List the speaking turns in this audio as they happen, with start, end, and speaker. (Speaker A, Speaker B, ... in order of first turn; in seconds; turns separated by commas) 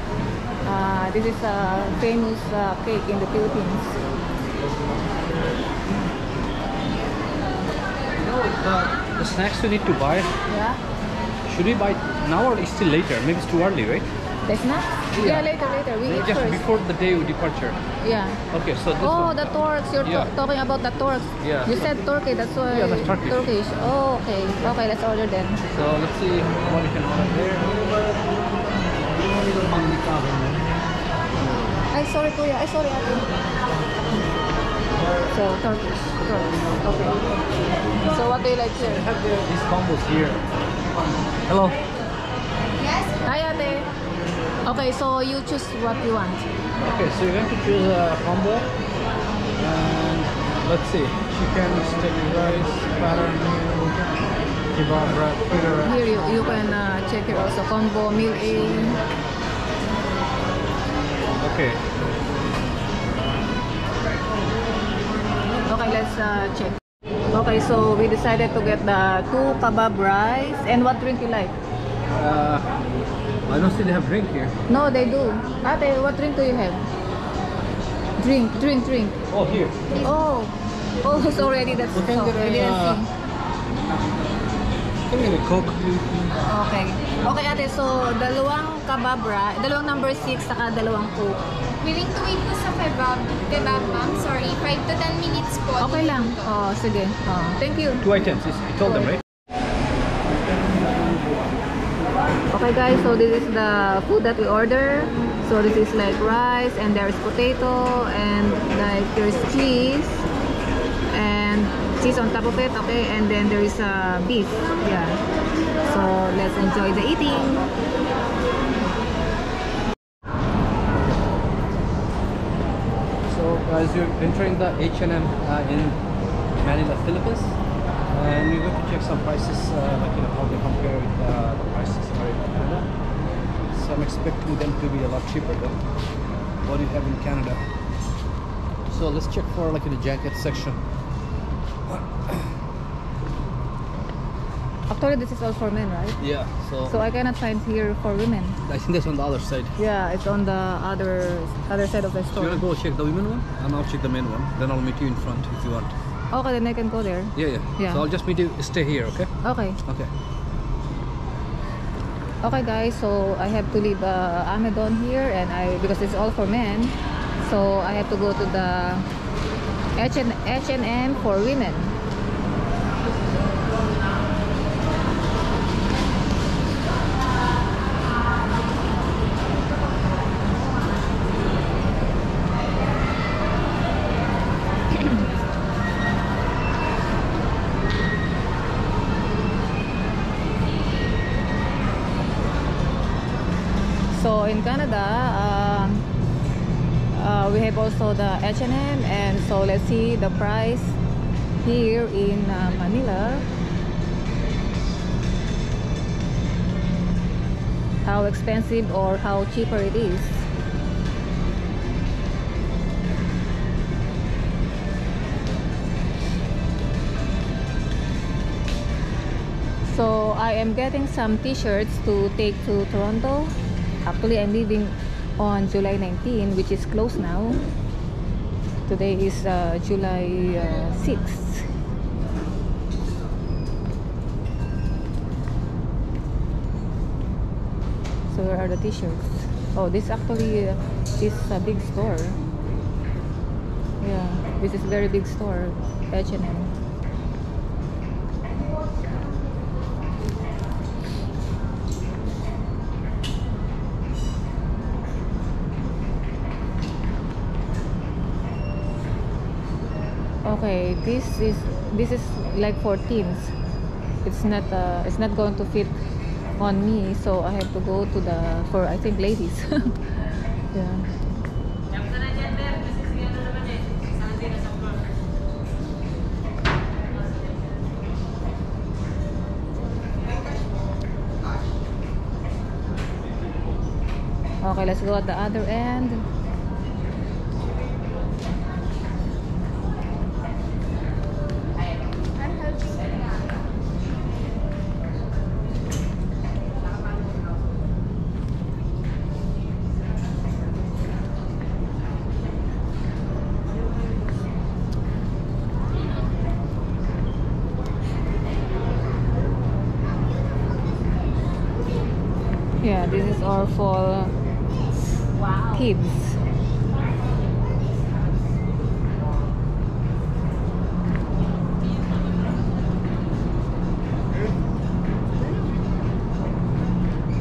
Speaker A: 0.6-4.0, Speaker B: 4.8-5.0, Speaker B: 8.1-10.3, Speaker A: 10.5-10.8, Speaker B: 11.4-14.1, Speaker A: 14.4-16.6, Speaker B: 15.1-15.5, Speaker B: 16.0-17.8, Speaker A: 18.0-18.4, Speaker B: 18.5-20.3, Speaker A: 19.0-25.6, Speaker B: 21.4-21.9, Speaker B: 22.7-23.5, Speaker B: 25.7-28.2, Speaker B: 28.9-30.6, Speaker B: 31.3-31.9, Speaker A: 31.9-33.3, Speaker A: 35.3-37.2, Speaker A: 38.1-39.0, Speaker B: 38.8-40.5, Speaker B: 41.2-41.8, Speaker C: 42.8-43.2, Speaker A: 43.2-43.9, Speaker A: 44.6-46.5, Speaker B: 46.8-48.7, Speaker B: 49.5-55.9, Speaker A: 55.8-59.0, Speaker B: 61.3-61.8, Speaker A: 65.6-66.8, Speaker A: 67.3-71.6, Speaker B: 72.1-72.7, Speaker B: 73.5-74.5, Speaker A: 74.7-76.8, Speaker A: 78.2-79.2, Speaker B: 79.3-79.8, Speaker A: 80.0-83.1, Speaker B: 81.9-83.0, Speaker B: 85.1-86.3, Speaker A: 86.5-91.4, Speaker C: 91.8-96.3, Speaker A: 95.8-98.0, Speaker B: 98.0-99.2, Speaker A: 102.5-110.2, Speaker A: 111.1-115.2, Speaker A: 115.8-117.7, Speaker B: 123.3-126.0, Speaker B: 126.6-127.5, Speaker B: 128.1-132.8, Speaker B: 133.7-135.8, Speaker B: 136.6-137.6, Speaker B: 138.9-140.8, Speaker B: 141.9-142.5, Speaker A: 144.9-146.2, Speaker B: 146.2-146.9, Speaker A: 146.9-148.6, Speaker B: 148.7-149.7, Speaker A: 149.8-152.6, Speaker B: 152.4-155.9, Speaker A: 156.3-158.0, Speaker B: 157.3-160.1, Speaker A: 159.4-159.8, Speaker A: 162.4-169.1, Speaker A: 170.0-172.0, Speaker A: 194.1-196.0, Speaker A: 197.1-201.0, Speaker A: 201.6-203.4, Speaker A: 208.0-210.5, Speaker A: 219.9-227.6, Speaker A: 228.9-231.7, Speaker A: 238.3-242.4, Speaker A: 244.0-246.7, Speaker A: 260.4-263.5, Speaker A: 264.2-265.9, Speaker A: 266.6-270.0, Speaker A: 270.7-271.1, Speaker A: 284.6-286.2, Speaker C: 292.4-293.1, Speaker A: 312.8-314.3, Speaker A: 315.7-316.4